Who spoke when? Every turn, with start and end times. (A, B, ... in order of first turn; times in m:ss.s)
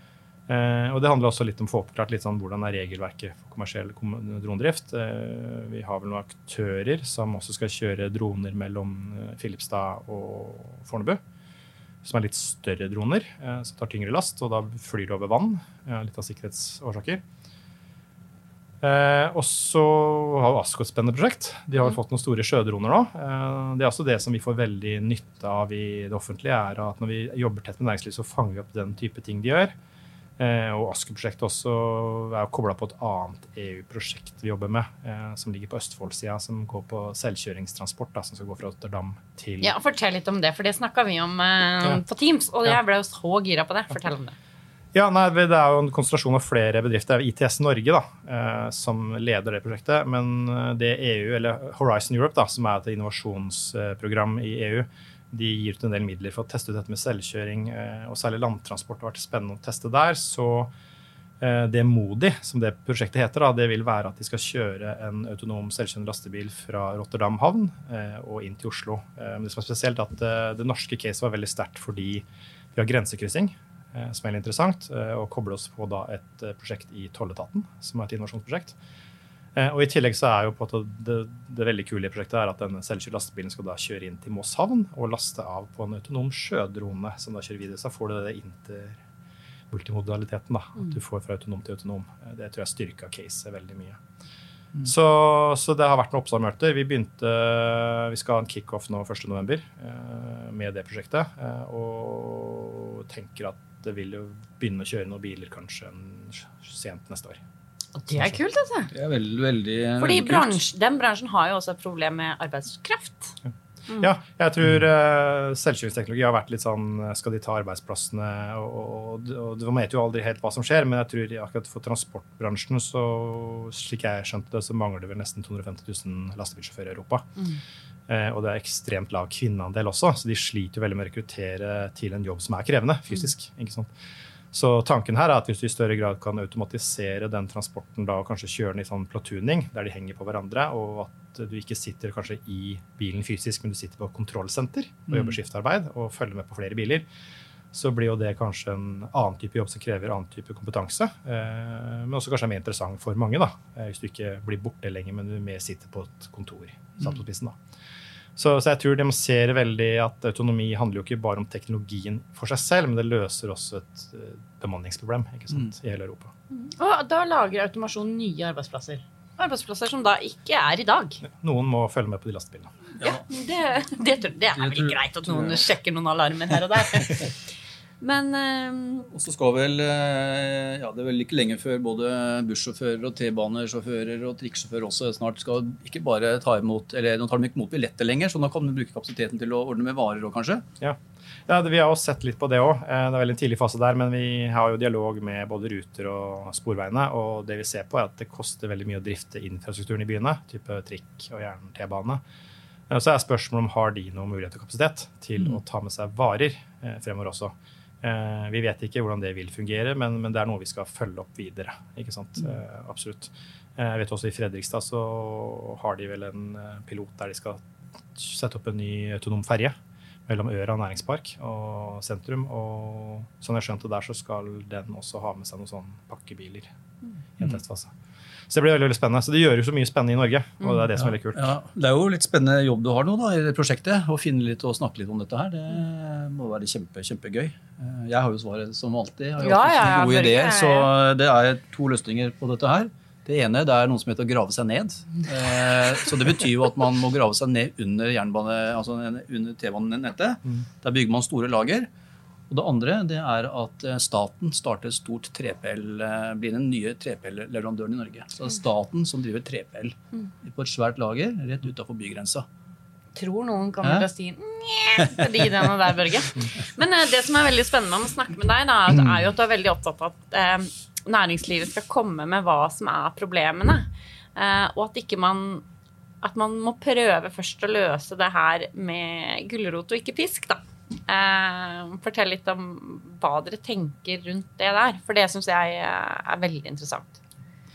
0:00.5-0:11.2 A
0:12.0-0:17.2 A
0:18.8-0:29.7 A
0:30.4-0:39.8 A
0:39.6-0:44.4 B
0:44.9-1:00.7 A
1:01.4-1:18.8 A
1:19.6-1:29.0 A
1:29.7-1:34.0 A
1:34.8-1:47.4 A
1:48.0-1:48.9 B
1:48.9-1:50.6 C
1:50.0-1:53.4 B
1:53.4-2:07.3 A
2:08.1-2:13.9 A
2:14.5-2:27.1 A
2:27.7-2:37.6 A
2:38.4-2:46.3 A
2:46.5-2:51.2 B
2:51.2-2:52.7 A
2:53.0-2:53.2 C
2:53.0-2:57.3 B
2:54.6-2:55.6 C
2:58.0-2:59.1 B
2:59.1-3:10.6 C
3:10.8-3:22.2 A
3:22.9-3:39.8 A
3:40.3-3:46.7 A
3:47.4-3:47.9 A
3:48.5-3:51.5 A
3:51.0-4:11.9 C
3:59.4-4:00.9 B
4:12.5-4:22.5 C
4:23.2-4:35.6 B
4:23.8-4:24.1 C
4:36.2-4:47.2 B